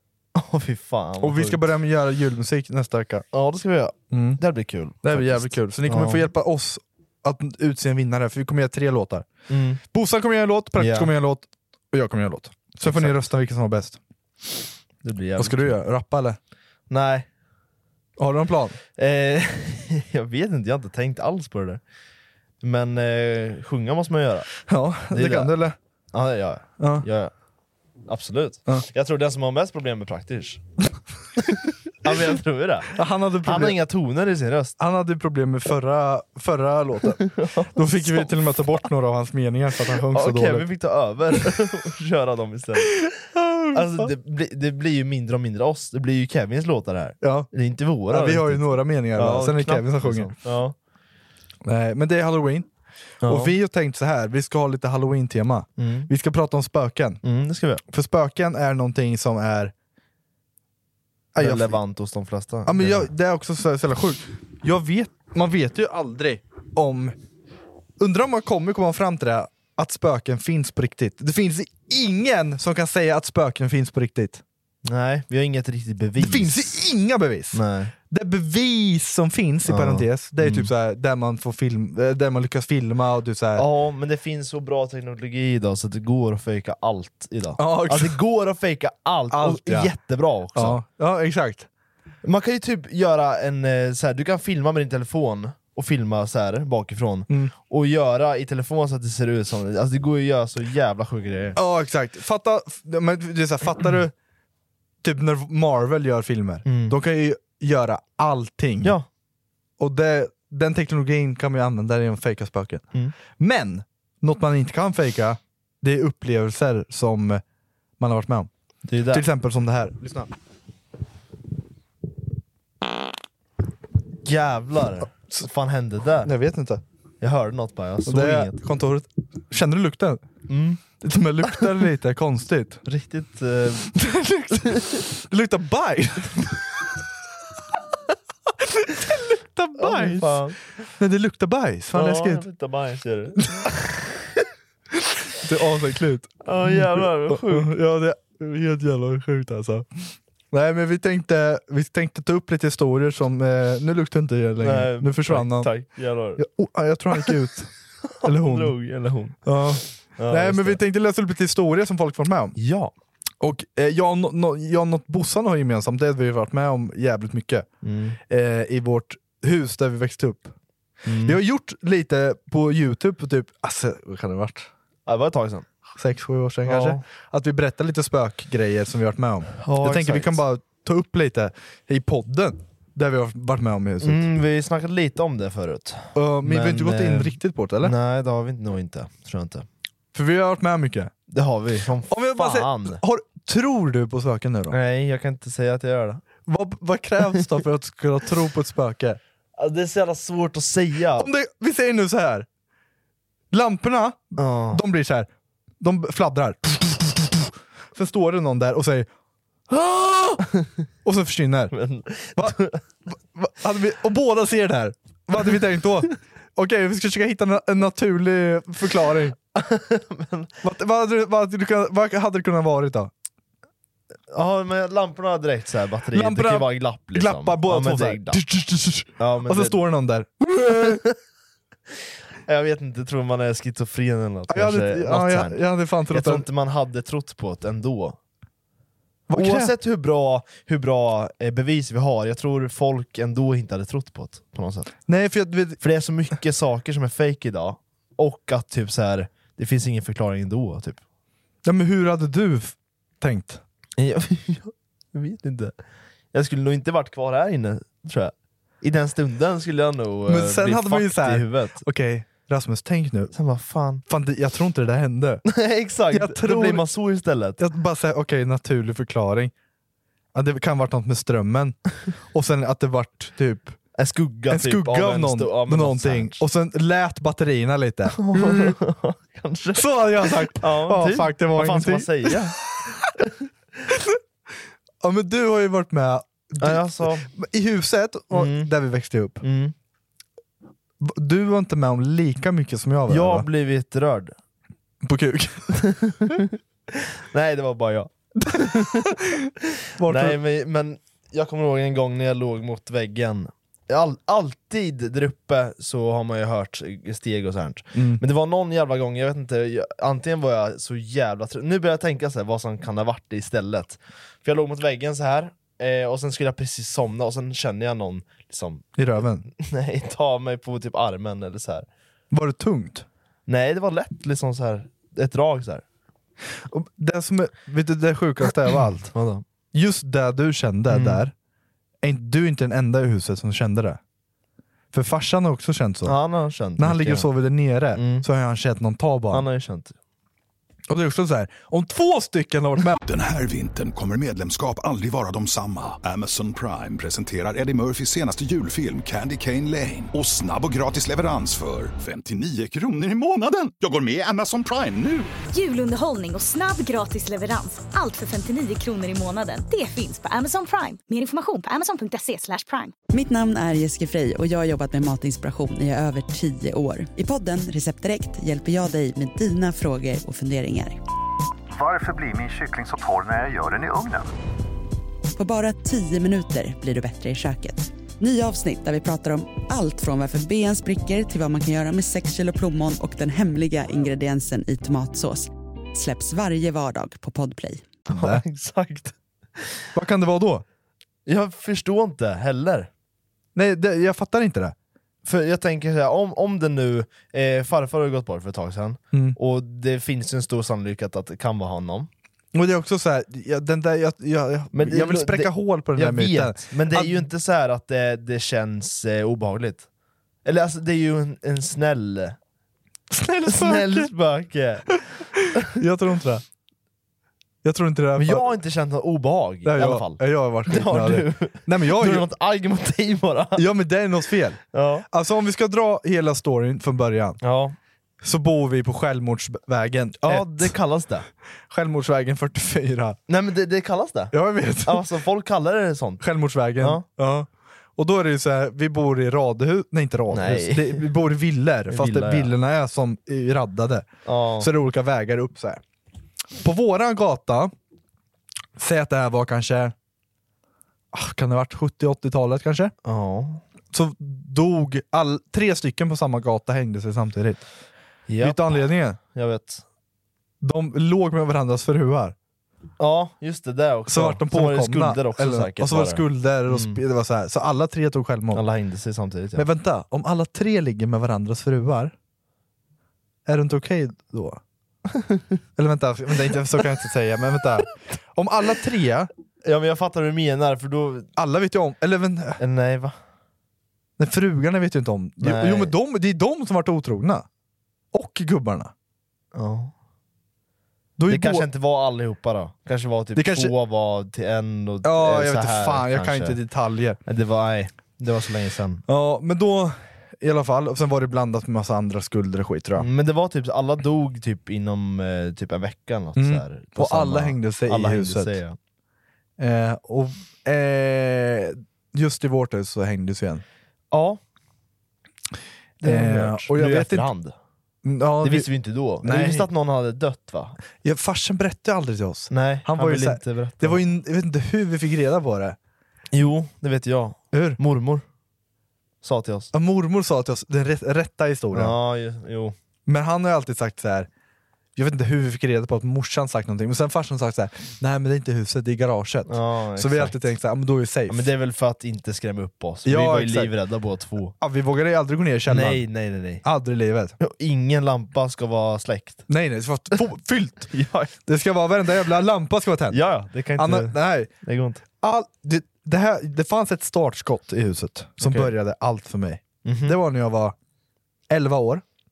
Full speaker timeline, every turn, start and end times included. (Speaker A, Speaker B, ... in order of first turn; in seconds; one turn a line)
Speaker A: 0.3-1.6
Speaker B: 1.2-3.3
Speaker A: 3.3-6.2
Speaker B: 4.1-4.4
Speaker B: 5.0-9.3
Speaker A: 9.5-9.8
Speaker B: 9.9-14.0
Speaker A: 10.8-11.1
Speaker A: 12.8-13.2
Speaker A: 15.0-15.7
Speaker B: 15.4-16.4
Speaker A: 16.9-17.3
Speaker B: 18.2-18.8
Speaker A: 19.0-21.8
Speaker A: 22.6-24.5
Speaker B: 24.6-25.8
Speaker A: 25.1-25.5
Speaker A: 26.1-27.3
Speaker B: 26.8-27.1
Speaker A: 28.1-30.6
Speaker A: 32.0-34.8
Speaker B: 32.9-33.8
Speaker B: 34.8-40.7
Speaker A: 37.3-38.4
Speaker A: 40.1-43.0
Speaker B: 43.0-44.1
Speaker A: 43.7-50.8
Speaker B: 47.2-47.5
Speaker B: 48.1-50.3
Speaker B: 51.6-52.7
Speaker B: 53.2-57.2
Speaker A: 53.2-53.5
Speaker A: 55.8-56.1
Speaker A: 57.2-57.8
Speaker B: 57.9-59.7
Speaker B: 61.4-61.8
Speaker A: 61.4-63.1
Speaker B: 62.7-67.2
Speaker B: 68.0-74.4
Speaker A: 74.8-76.7
Speaker B: 76.2-83.7
Speaker A: 77.5-77.9
Speaker A: 79.7-80.7
Speaker A: 83.6-90.8
Speaker B: 87.6-88.2
Speaker B: 89.3-89.9
Speaker B: 90.5-91.7
Speaker A: 92.2-101.6
Speaker B: 101.6-104.1
Speaker B: 105.0-109.0
Speaker A: 106.7-107.0
Speaker A: 108.8-109.1
Speaker B: 109.8-117.4
Speaker B: 118.0-118.5
Speaker A: 118.8-119.2
Speaker B: 119.1-120.3
Speaker A: 124.2-126.3
Speaker B: 126.2-126.8
Speaker A: 127.2-128.6
Speaker B: 128.1-130.2
Speaker A: 130.5-130.8
Speaker B: 131.0-132.8
Speaker A: 132.9-133.9
Speaker B: 133.9-136.6
Speaker A: 134.6-135.0
Speaker B: 138.6-140.4
Speaker A: 139.8-140.6
Speaker B: 141.0-142.5
Speaker A: 141.9-143.8
Speaker B: 145.4-155.7
Speaker A: 146.4-147.7
Speaker A: 154.6-156.4
Speaker B: 156.4-157.7
Speaker A: 158.2-159.4
Speaker B: 158.2-158.8
Speaker B: 159.4-162.6
Speaker A: 160.2-160.8
Speaker A: 162.6-162.9
Speaker B: 163.4-167.7
Speaker A: 167.8-168.2
Speaker B: 168.3-170.6
Speaker A: 171.1-171.4
Speaker B: 171.2-174.7
Speaker A: 175.1-175.7
Speaker B: 176.0-184.3
Speaker A: 176.7-177.0
Speaker A: 179.6-180.4
Speaker A: 184.0-189.7
Speaker B: 186.2-187.9
Speaker B: 190.1-191.1
Speaker A: 191.3-193.0
Speaker B: 192.1-194.8
Speaker A: 194.7-196.2
Speaker B: 196.5-199.2
Speaker A: 199.6-201.3
Speaker B: 201.2-202.5
Speaker B: 203.5-205.3
Speaker A: 204.4-204.8
Speaker B: 205.8-209.1
Speaker B: 209.7-210.5
Speaker B: 211.1-211.7
Speaker A: 211.7-212.8
Speaker B: 213.1-219.4
Speaker A: 219.6-220.5
Speaker B: 220.6-223.1
Speaker A: 224.3-228.4
Speaker B: 226.1-231.0
Speaker A: 229.2-229.8
Speaker A: 230.7-231.1
Speaker A: 232.5-238.2
Speaker B: 234.5-236.5
Speaker B: 239.3-239.7
Speaker A: 239.3-244.9
Speaker B: 245.1-245.8
Speaker A: 245.8-251.0
Speaker B: 251.7-253.6
Speaker A: 254.0-255.7
Speaker A: 256.3-261.8
Speaker B: 260.3-263.3
Speaker A: 263.3-264.0
Speaker B: 264.1-265.4
Speaker A: 265.5-267.6
Speaker B: 266.1-266.9
Speaker B: 267.6-269.5
Speaker B: 270.3-271.8
Speaker B: 272.3-273.8
Speaker A: 274.0-276.4
Speaker B: 274.5-278.8
Speaker A: 278.2-283.3
Speaker B: 279.8-282.4
Speaker B: 283.9-284.2
Speaker B: 285.0-289.4
Speaker A: 286.6-287.3
Speaker A: 288.3-288.7
Speaker A: 289.4-289.7
Speaker B: 291.0-293.5
Speaker A: 293.1-294.4
Speaker B: 295.0-295.8
Speaker A: 295.8-299.1
Speaker B: 298.4-300.4
Speaker A: 300.0-318.9
Speaker B: 307.9-308.2
Speaker B: 319.0-319.5
Speaker A: 319.6-321.9
Speaker B: 322.3-323.1
Speaker A: 323.5-325.8
Speaker B: 326.6-329.1
Speaker A: 329.1-329.4
Speaker B: 329.7-331.3
Speaker A: 330.9-331.2
Speaker B: 332.0-334.0
Speaker B: 334.9-336.2
Speaker A: 336.1-337.3
Speaker B: 336.8-339.5
Speaker A: 337.9-338.3
Speaker A: 339.3-339.9
Speaker B: 340.9-343.0
Speaker C: 343.0-355.3
Speaker D: 355.5-362.9
Speaker E: 363.1-371.0
Speaker F: 371.7-374.3
Speaker E: 375.4-387.9
Speaker B: 388.1-388.4
Speaker A: 388.1-389.7
Speaker B: 389.9-390.6
Speaker A: 391.3-392.9
Speaker B: 393.6-394.8
Speaker A: 395.2-402.1
Speaker B: 399.1-399.4
Speaker B: 402.5-407.3
Speaker A: 404.7-409.9
Speaker A: 410.4-412.4
Speaker B: 413.1-414.1
Speaker A: 413.5-415.0
Speaker B: 415.4-416.4
Speaker B: 417.6-418.5
Speaker A: 418.2-423.6
Speaker B: 419.6-422.3
Speaker B: 423.6-427.4
Speaker A: 424.7-425.1
Speaker A: 427.4-427.8
Speaker B: 428.2-430.8
Speaker A: 430.2-431.3
Speaker B: 431.7-433.2
Speaker A: 433.3-434.3
Speaker B: 434.3-435.1
Speaker A: 434.9-436.2
Speaker B: 436.2-445.8
Speaker A: 440.3-441.1
Speaker A: 441.9-442.5
Speaker A: 444.3-444.7
Speaker B: 446.6-447.7
Speaker B: 448.8-449.9
Speaker B: 451.1-452.9
Speaker A: 453.0-453.6
Speaker B: 453.9-457.6
Speaker A: 458.3-459.8
Speaker B: 458.4-459.2
Speaker B: 460.6-462.4
Speaker A: 463.0-467.0
Speaker B: 464.1-468.6
Speaker A: 468.5-469.7
Speaker B: 469.6-472.1
Speaker B: 473.5-474.6
Speaker B: 475.8-479.3
Speaker A: 479.6-481.3
Speaker B: 481.4-482.6
Speaker A: 482.6-483.2
Speaker B: 484.2-487.5
Speaker A: 485.4-485.9
Speaker B: 488.1-488.9
Speaker A: 489.5-489.9
Speaker B: 491.2-491.7
Speaker A: 491.3-496.6
Speaker B: 493.4-493.7
Speaker B: 495.0-497.2
Speaker A: 497.3-499.0
Speaker B: 499.1-503.1
Speaker A: 503.0-508.8
Speaker B: 506.4-508.6
Speaker B: 509.6-513.6
Speaker A: 514.1-514.4
Speaker A: 516.0-517.5
Speaker B: 516.0-517.3
Speaker B: 518.0-518.7
Speaker A: 518.4-520.8
Speaker B: 519.2-519.7
Speaker B: 521.0-525.8
Speaker A: 522.5-524.0
Speaker A: 526.3-528.2
Speaker B: 527.5-527.8
Speaker A: 529.2-529.7
Speaker B: 529.7-532.0
Speaker A: 531.7-532.8
Speaker B: 533.1-534.3
Speaker B: 535.0-541.5
Speaker A: 539.5-540.4
Speaker A: 541.3-544.5
Speaker B: 543.0-543.7
Speaker B: 544.6-546.0
Speaker A: 545.7-546.6
Speaker B: 546.6-547.4
Speaker A: 547.4-549.5
Speaker B: 549.5-550.9
Speaker A: 550.9-551.3
Speaker B: 551.5-554.5
Speaker A: 553.1-555.0
Speaker B: 555.2-560.8
Speaker A: 558.4-558.7
Speaker A: 559.8-560.2
Speaker B: 561.5-562.0